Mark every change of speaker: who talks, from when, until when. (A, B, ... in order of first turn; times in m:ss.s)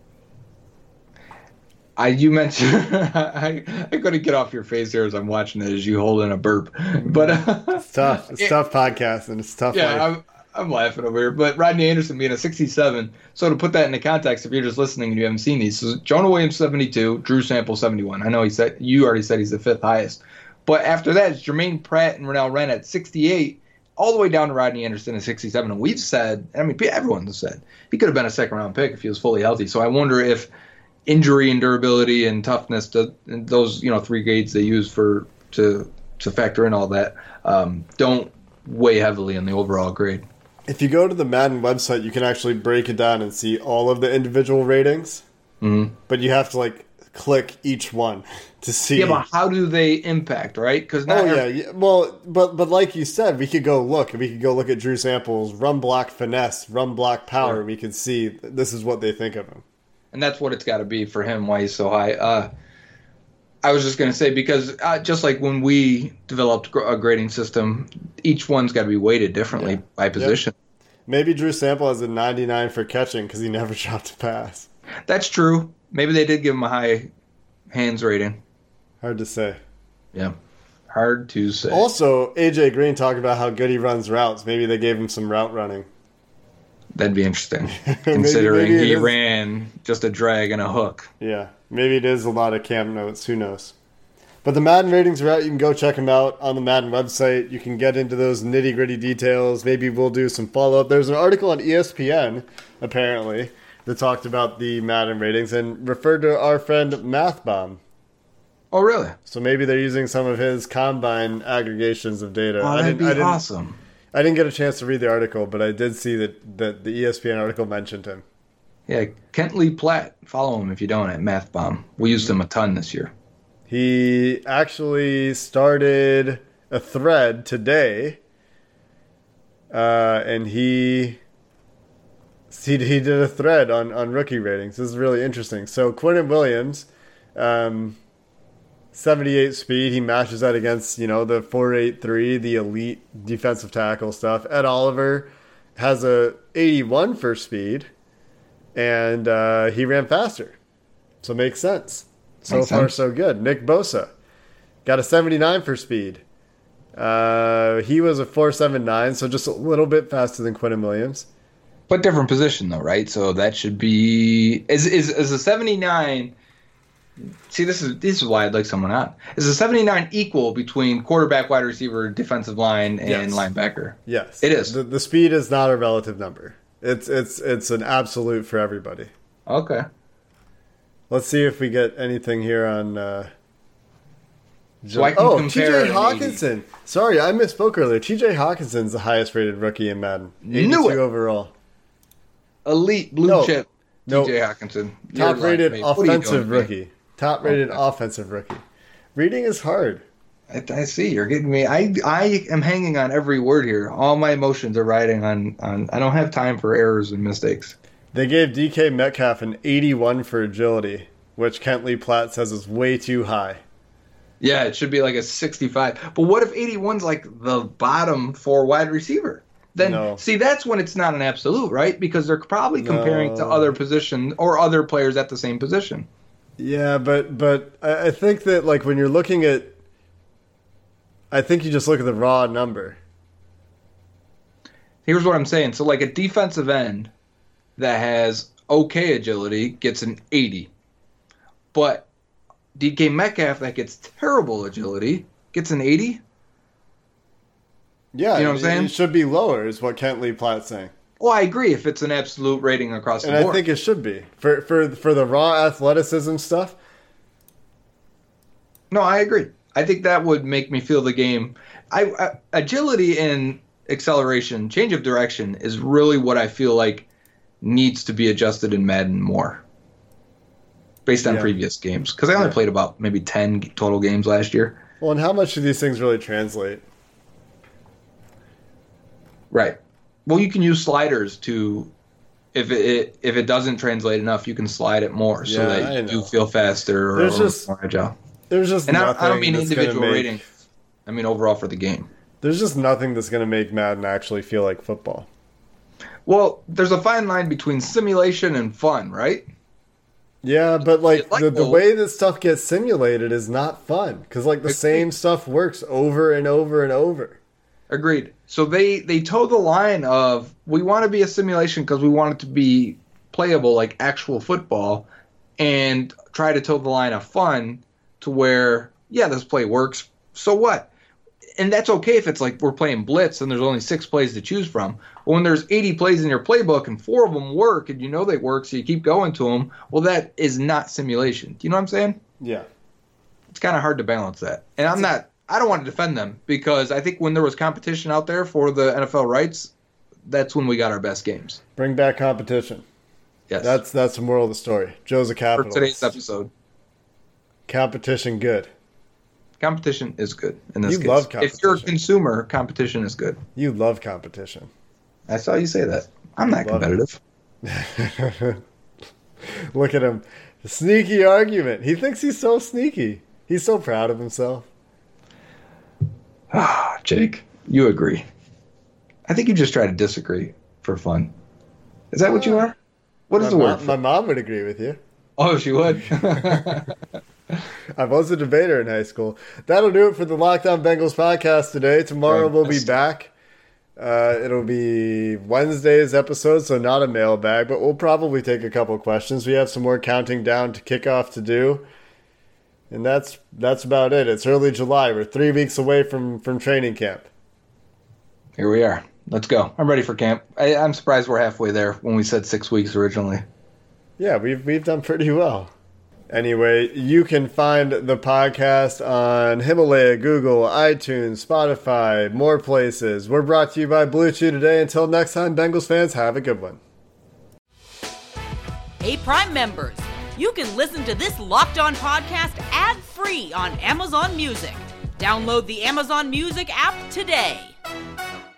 0:02.0-0:08.5 A
0:07.0-0:10.1 B
0:09.7-0:30.5 A
0:31.0-0:40.2 A
0:40.7-0:45.2 B
0:45.6-0:46.0 A
0:46.1-0:49.2 B
0:49.0-0:51.5 A
0:51.1-0:59.6 B
1:00.1-1:02.5 A
1:03.6-1:10.5 A
1:09.6-1:10.4 B
1:11.1-1:14.7 B
1:15.1-1:17.1 A
1:17.7-1:18.4 A
1:19.0-1:19.6 B
1:20.9-1:21.8 A
1:21.7-1:25.9 B
1:27.0-1:31.1 A
1:27.8-1:29.1 B
1:31.2-1:33.7 B
1:34.4-1:47.8 B
1:48.7-1:49.2 A
1:49.3-1:53.4 B
1:52.6-1:53.8 A
1:54.1-1:58.2 B
1:58.9-2:03.1 A
2:03.7-2:08.2 B
2:09.7-2:11.2 B
2:12.5-2:18.0 B
2:18.9-2:27.9 B
2:28.7-2:30.6 B
2:31.2-2:34.1 B
2:32.5-2:32.9 A
2:34.8-2:36.2 B
2:37.0-2:41.3 B
2:41.9-2:46.3 A
2:47.5-2:54.8 A
2:53.0-2:53.5 B
2:54.1-2:59.1 B
2:59.5-2:59.8 A
3:01.1-3:03.3 B
3:04.8-3:11.5 B
3:04.9-3:06.4 A
3:10.4-3:11.0 A
3:12.6-3:16.7 A
3:13.2-3:13.6 B
3:14.1-3:14.4 B
3:15.1-3:18.6 B
3:17.4-3:17.8 A
3:19.1-3:20.0 B
3:20.5-3:27.7 A
3:28.1-3:33.6 B
3:34.4-3:46.1 A
3:39.8-3:40.2 B
3:42.8-3:43.8 B
3:46.6-3:49.8 B
3:51.3-3:53.0 B
3:55.0-3:57.1 A
3:57.8-4:00.7 A
4:01.7-4:02.1 A
4:02.8-4:06.2 A
4:08.1-4:10.9 B
4:08.4-4:08.9 A
4:11.2-4:13.6 A
4:13.2-4:16.8 B
4:18.9-4:27.1 A
4:27.6-4:29.6 A
4:31.0-4:34.8 A
4:31.2-4:31.5 B
4:35.0-4:36.8 B
4:39.5-4:41.9 A
4:42.5-4:48.1 A
4:45.4-4:46.3 B
4:47.1-4:47.7 B
4:48.5-4:50.4 B
4:48.9-4:50.4 A
4:51.0-4:52.1 A
4:52.4-4:55.3 B
4:56.3-4:59.4 A
5:00.4-5:07.4 B
5:01.1-5:01.8 A
5:04.7-5:05.0 A
5:07.9-5:15.1 A
5:15.6-5:20.9 A
5:21.6-5:32.2 A
5:32.4-5:32.7 B
5:33.5-5:39.7 A
5:40.3-5:41.6 A
5:41.8-5:42.8 B
5:43.5-5:43.8 A
5:43.6-5:46.1 B
5:45.6-5:46.5 A
5:47.7-5:48.7 B
5:49.6-5:53.4 A
5:50.8-5:51.9 B
5:53.6-5:54.7 B
5:55.3-5:57.2 A
5:56.5-5:56.9 B
5:57.6-5:58.6 B
5:59.5-6:04.7 B
6:06.5-6:08.2 A
6:09.3-6:11.3 A
6:12.1-6:12.8 A
6:12.3-6:12.7 B
6:13.3-6:14.0 A
6:13.4-6:15.0 B
6:15.4-6:16.9 A
6:16.1-6:16.8 B
6:18.0-6:23.3 B
6:22.3-6:23.0 A
6:24.0-6:31.8 B
6:32.9-6:37.3 B
6:38.6-6:43.4 A
6:44.2-6:45.7 B
6:46.3-6:56.8 B
6:59.0-7:07.7 C